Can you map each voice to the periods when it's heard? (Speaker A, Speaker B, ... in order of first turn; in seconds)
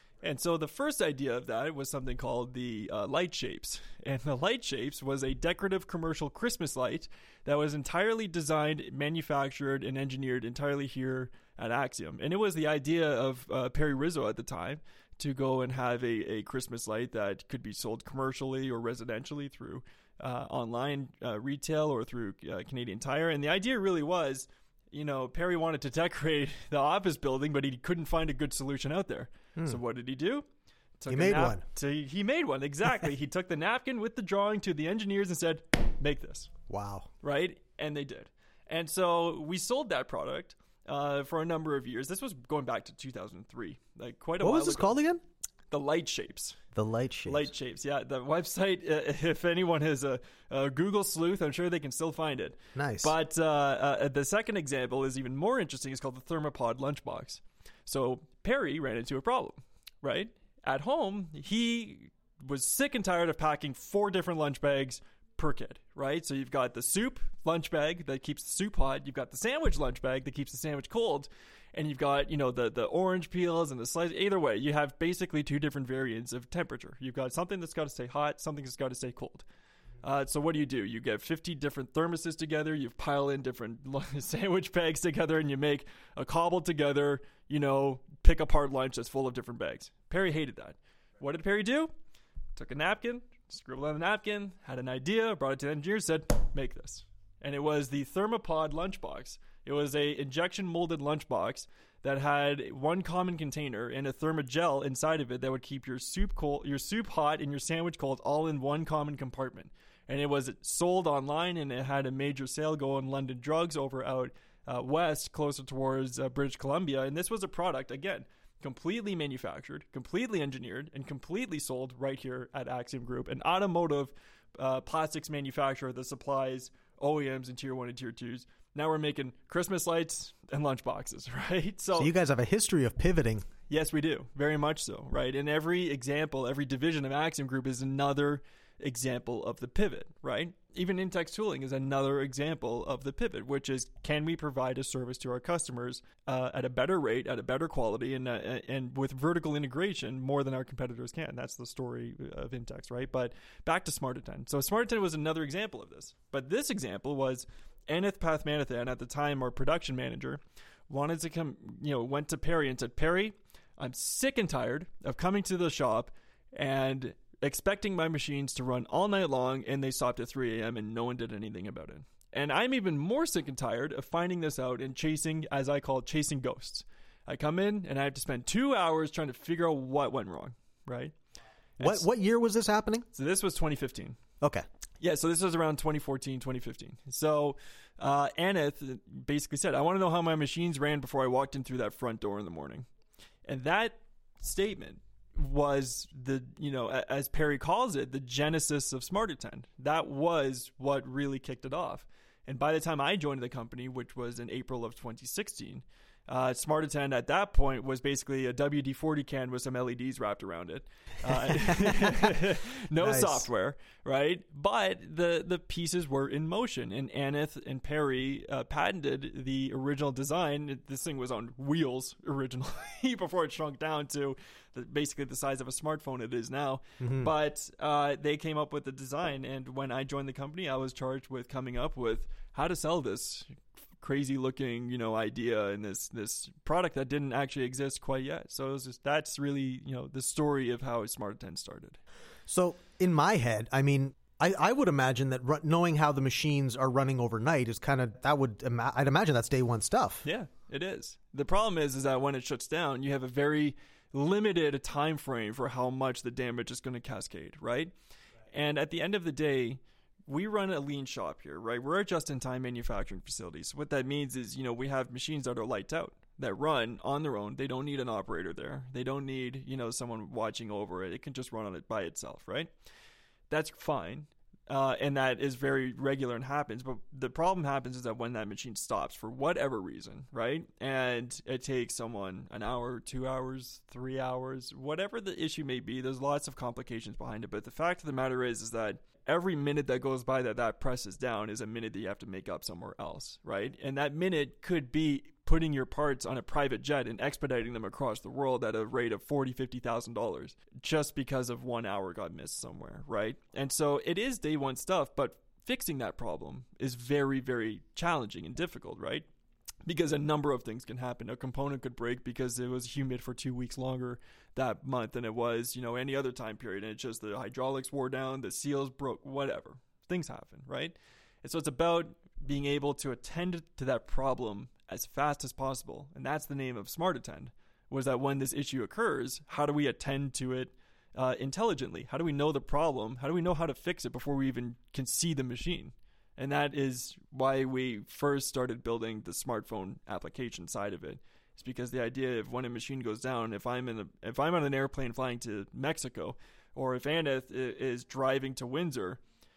Speaker A: 0.2-30.4, 31.0-36.5, 37.2-45.0, 45.7-46.6, 47.2-79.4, 80.0-91.9, 92.5-132.1, 133.7-181.1, 181.8-182.1, 183.1-184.2, 185.0-192.9, 193.4-242.0, 250.2-257.9, 258.5-272.7, 273.5-309.3, 309.9-349.2
Speaker B: 31.1-31.6, 36.7-37.1, 44.4-45.2, 46.7-47.5, 52.7-53.1, 131.9-133.5, 181.8-183.1, 211.6-212.1, 213.0-213.5, 227.0-227.3, 242.5-250.2